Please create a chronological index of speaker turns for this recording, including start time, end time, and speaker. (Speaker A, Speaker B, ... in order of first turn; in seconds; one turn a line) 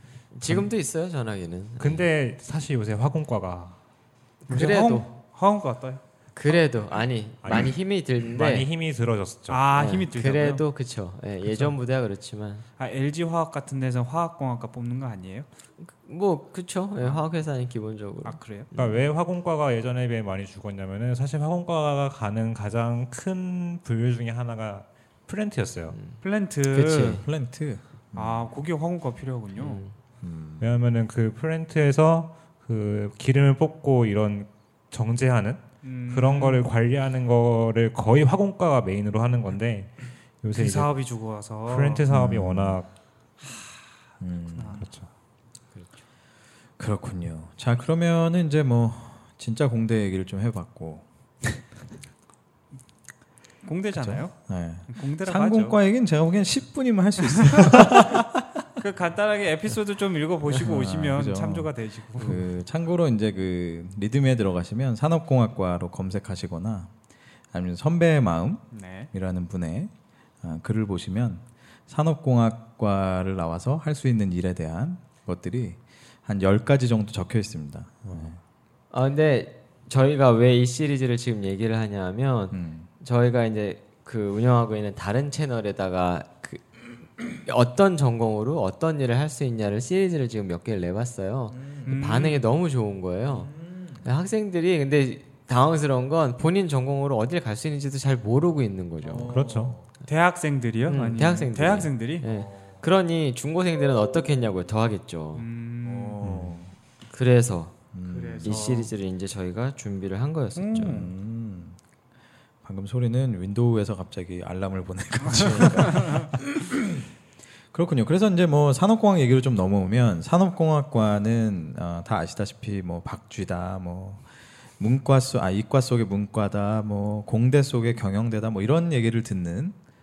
Speaker A: 0.3-2.1
Speaker B: 0.4-0.7
Speaker B: 1.8-3.8
Speaker A: 4.5-5.0
Speaker C: 4.5-6.0
Speaker A: 6.3-8.7
Speaker B: 7.4-9.7
Speaker C: 9.5-10.6
Speaker A: 9.7-12.6
Speaker C: 12.8-15.5
Speaker A: 15.8-19.0
Speaker C: 18.2-18.7
Speaker B: 18.7-25.9
Speaker A: 25.9-26.2
Speaker C: 26.2-27.2
Speaker A: 26.7-27.2
Speaker D: 27.2-28.4
Speaker C: 28.1-29.8
Speaker A: 29.6-29.9
Speaker D: 30.2-30.7
Speaker B: 30.6-40.9
Speaker C: 35.8-36.7
Speaker C: 40.5-42.0
Speaker B: 41.7-42.9
Speaker D: 42.1-42.8
Speaker C: 43.4-43.7
Speaker D: 44.2-44.9
Speaker C: 44.5-44.9
Speaker B: 44.8-45.1
Speaker D: 46.8-51.0
Speaker C: 53.6-54.3
Speaker D: 53.9-58.3
Speaker C: 54.9-55.8
Speaker C: 57.4-58.2
Speaker C: 58.8-62.4
Speaker D: 60.5-66.9
Speaker D: 67.5-78.4
Speaker C: 68.7-69.1
Speaker A: 78.9-93.5
Speaker D: 82.5-82.9
Speaker D: 91.5-91.9
Speaker C: 91.8-92.5
Speaker D: 93.3-94.0
Speaker A: 94.0-99.3
Speaker D: 99.0-99.8
Speaker B: 99.3-99.8
Speaker C: 100.0-102.2
Speaker A: 100.9-105.5
Speaker D: 102.2-102.7
Speaker C: 105.3-106.2
Speaker D: 105.8-106.7
Speaker B: 106.2-106.6
Speaker A: 107.1-107.8
Speaker D: 107.9-108.7
Speaker C: 108.1-108.9
Speaker A: 108.4-111.0
Speaker C: 110.5-111.1
Speaker D: 110.7-111.8
Speaker D: 112.6-117.0
Speaker C: 115.2-116.3
Speaker D: 117.7-124.2
Speaker D: 124.8-129.7